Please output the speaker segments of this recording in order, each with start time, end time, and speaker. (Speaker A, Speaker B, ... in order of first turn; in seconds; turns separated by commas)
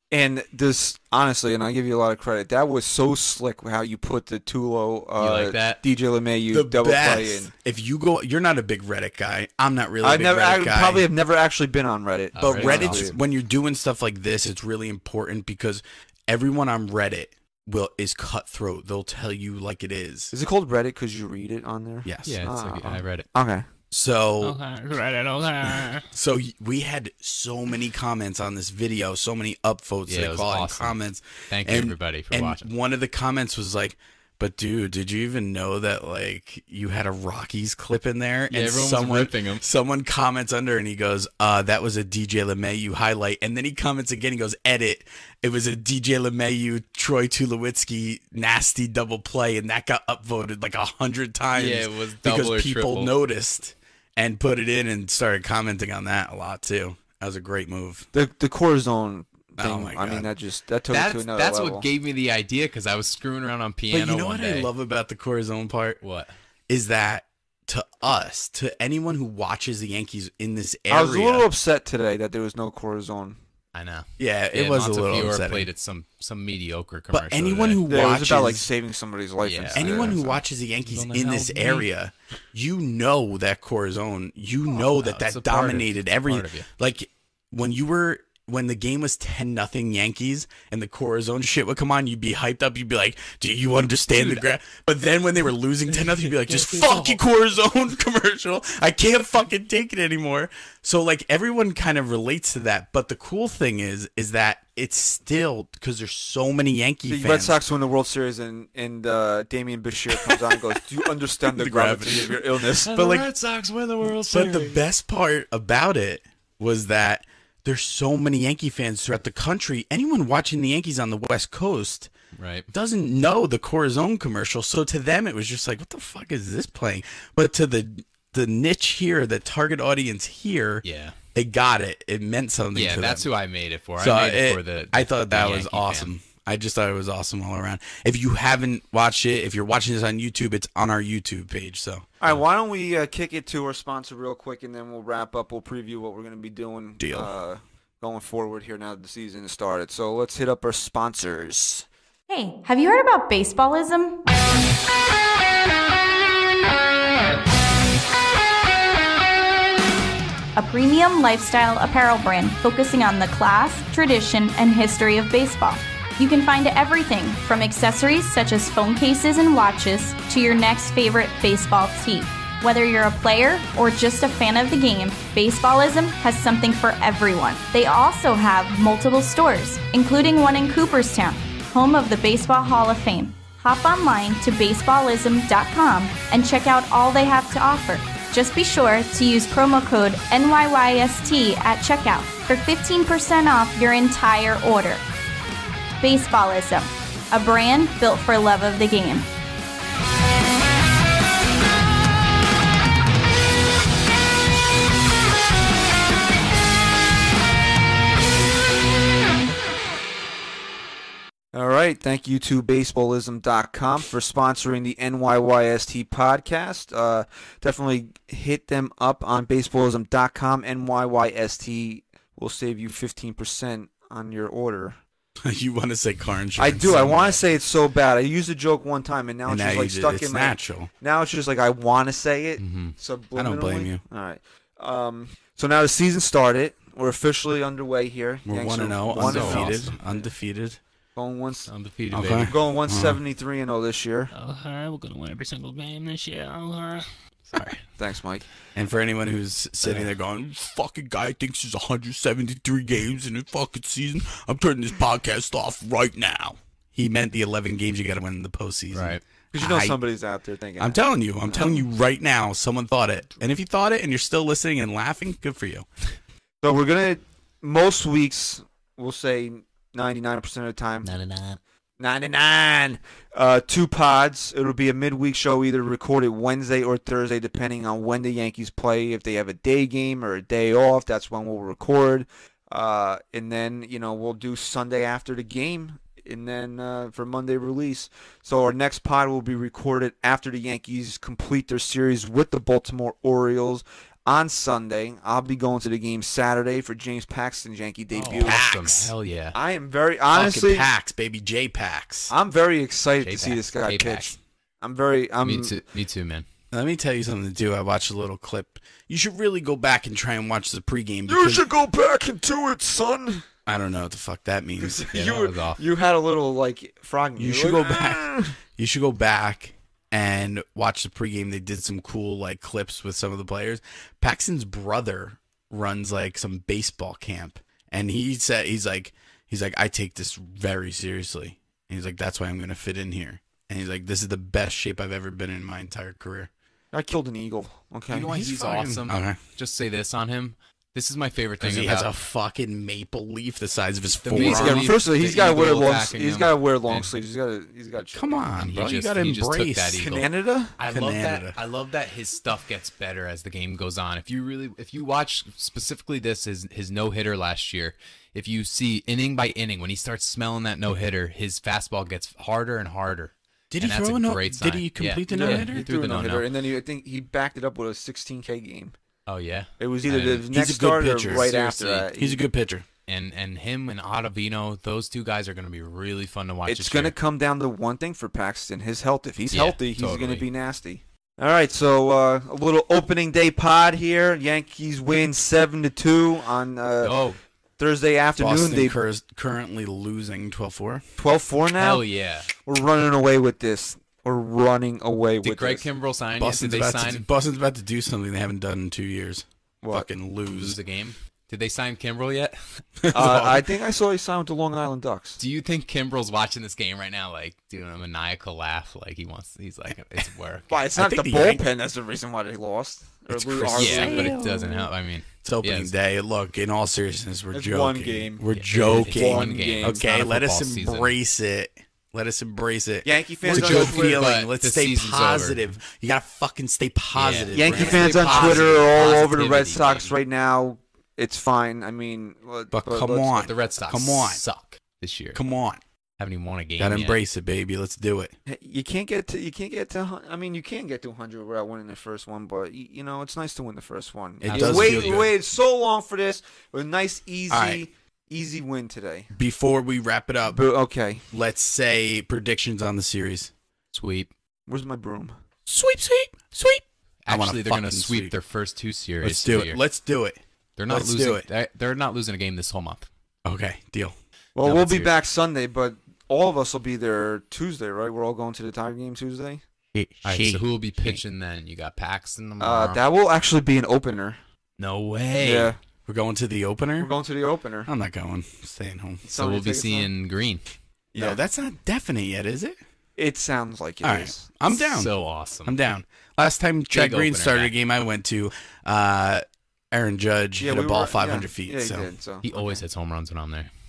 Speaker A: 0.1-7.5, Speaker B: 5.2-5.8, Speaker C: 6.5-11.1, Speaker A: 10.0-13.2, Speaker B: 12.3-13.1, Speaker C: 12.4-20.3, Speaker A: 20.3-23.6, Speaker C: 22.0-22.4, Speaker B: 22.2-23.3, Speaker C: 23.9-24.6, Speaker D: 24.4-26.1, Speaker C: 25.7-58.1, Speaker B: 30.1-31.0, Speaker B: 31.5-32.7, Speaker B: 38.5-39.6, Speaker B: 51.5-53.1, Speaker A: 58.1-61.9, Speaker C: 59.6-60.3, Speaker B: 60.9-64.7, Speaker C: 63.9-66.0, Speaker B: 66.0-66.3, Speaker C: 66.7-71.5, Speaker A: 70.9-73.4, Speaker B: 73.7-78.0, Speaker C: 74.2-75.7, Speaker C: 77.1-78.7, Speaker A: 77.9-80.4, Speaker B: 79.4-80.2, Speaker C: 79.7-107.6, Speaker D: 80.8-81.9, Speaker B: 84.7-86.7, Speaker B: 94.2-94.4, Speaker A: 107.1-112.9, Speaker C: 111.5-113.3, Speaker B: 112.8-114.8, Speaker C: 114.0-122.1, Speaker B: 122.3-122.7, Speaker C: 122.7-130.8, Speaker B: 130.8-131.2, Speaker C: 131.3-133.2, Speaker B: 132.7-136.1, Speaker C: 134.0-142.1, Speaker A: 142.2-151.8, Speaker C: 147.0-147.3, Speaker E: 152.3-154.2, Speaker E: 160.6-195.0, Speaker E: 196.0-199.3, Speaker A: 211.5-225.0, Speaker C: 225.4-227.2, Speaker A: 226.6-239.9, Speaker B: 226.8-227.4, Speaker C: 229.4-230.9, Speaker B: 232.6-232.9, Speaker C: 233.3-234.0, Speaker C: 238.4-240.8, Speaker B: 239.2-239.9, Speaker A: 241.2-241.7, Speaker B: 241.7-242.6, Speaker C: 242.1-243.2, Speaker A: 242.4-244.3, Speaker D: 244.3-247.1, Speaker B: 247.5-247.8, Speaker A: 248.0-248.4, Speaker C: 248.7-260.0, Speaker B: 249.8-250.1, Speaker B: 258.9-259.2, Speaker A: 259.5-261.8, Speaker C: 260.8-265.9, Speaker A: 266.6-271.1, Speaker B: 271.1-271.6, Speaker A: 272.0-298.6, Speaker B: 298.1-299.6, Speaker C: 298.3-299.1, Speaker A: 299.5-300.9, Speaker C: 300.3-302.3, Speaker A: 302.3-305.8, Speaker B: 303.2-304.3, Speaker B: 305.4-306.4, Speaker C: 306.7-311.6, Speaker A: 311.2-313.4, Speaker C: 313.6-315.0, Speaker A: 314.8-318.5, Speaker B: 315.1-315.8, Speaker C: 317.4-336.5, Speaker A: 336.9-338.3, Speaker B: 338.1-342.1, Speaker C: 338.3-339.4, Speaker C: 341.6-344.9, Speaker B: 344.2-347.1, Speaker A: 344.3-348.5, Speaker C: 348.1-350.2, Speaker B: 348.6-366.5, Speaker A: 349.9-350.7, Speaker C: 350.9-351.6, Speaker C: 363.7-365.8, Speaker A: 365.3-368.9, Speaker B: 369.3-370.5, Speaker A: 369.8-372.4, Speaker C: 370.5-372.9, Speaker B: 371.3-372.1, Speaker B: 373.1-377.1, Speaker A: 376.6-387.1, Speaker B: 379.5-380.5, Speaker B: 387.0-387.4, Speaker A: 387.8-389.0, Speaker C: 388.4-391.0, Speaker A: 391.2-392.0, Speaker B: 391.8-392.5, Speaker A: 392.6-395.9, Speaker B: 395.4-397.2, Speaker C: 396.4-400.8, Speaker A: 399.8-400.1, Speaker B: 400.5-402.8, Speaker C: 403.0-403.6, Speaker A: 403.1-405.4, Speaker B: 405.4-410.8, Speaker A: 410.7-414.4, Speaker C: 410.9-411.6, Speaker C: 413.3-414.9, Speaker B: 413.6-415.9, Speaker C: 415.4-428.8, Speaker A: 417.5-420.0, Speaker B: 418.5-421.1, Speaker A: 423.0-424.2, Speaker B: 423.4-425.6, Speaker B: 427.1-430.1, Speaker A: 427.5-433.5, Speaker C: 432.7-434.4, Speaker B: 433.4-435.4, Speaker C: 435.3-435.8, Speaker B: 436.2-437.2, Speaker C: 436.8-438.3, Speaker A: 438.5-449.3, Speaker C: 444.4-445.3, Speaker B: 444.4-445.3, Speaker C: 447.5-447.9, Speaker C: 449.3-450.6, Speaker A: 450.5-451.3, Speaker C: 451.3-453.5, Speaker B: 453.9-454.3, Speaker A: 454.7-455.3, Speaker C: 455.6-458.4, Speaker B: 457.2-459.8, Speaker C: 459.2-461.4, Speaker B: 460.8-463.1, Speaker C: 463.4-464.1, Speaker A: 464.6-469.6, Speaker B: 464.6-465.1, Speaker C: 469.9-471.2, Speaker B: 470.2-473.0, Speaker A: 472.6-474.4, Speaker B: 474.8-475.7, Speaker A: 475.4-475.8, Speaker C: 476.1-477.1, Speaker A: 477.0-477.9, Speaker C: 477.8-479.2, Speaker A: 479.2-480.1, Speaker B: 479.3-480.6, Speaker A: 481.1-481.4, Speaker C: 481.1-482.8, Speaker A: 483.2-484.5, Speaker C: 484.0-485.1, Speaker B: 484.7-485.8, Speaker C: 485.6-492.1, Speaker B: 486.9-487.7, Speaker A: 490.6-492.8, Speaker B: 492.4-493.7